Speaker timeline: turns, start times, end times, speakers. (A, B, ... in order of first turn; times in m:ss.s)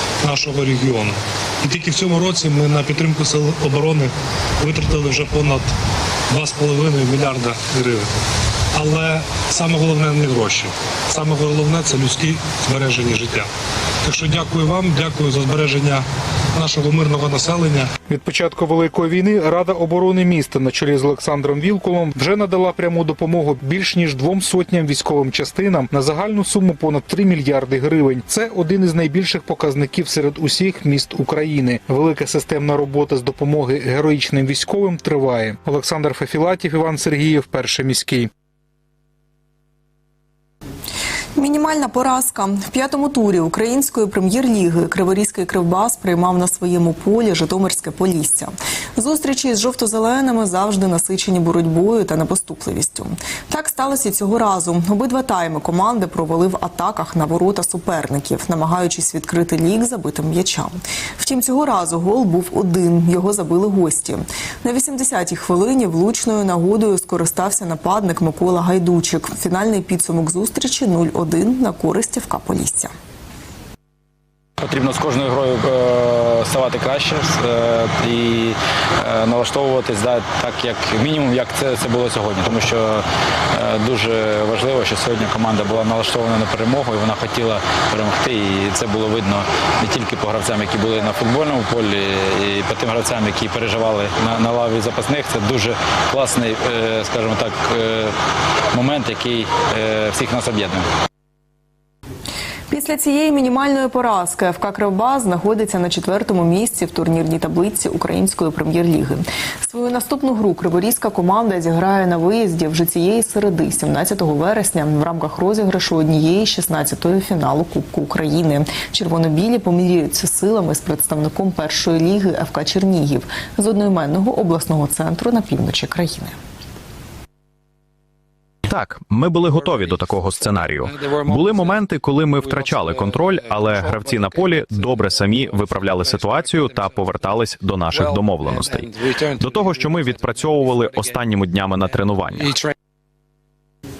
0:00.2-0:05.7 A
0:06.3-0:08.1 A
0:08.7-0:13.5 A
0:14.0-0:17.9 A
0:18.1-0:38.3 B
0:41.4-1:12.9 C
1:14.6-1:38.1 D
1:38.7-1:40.8 D
1:42.7-2:06.4 C
2:08.7-2:22.5 E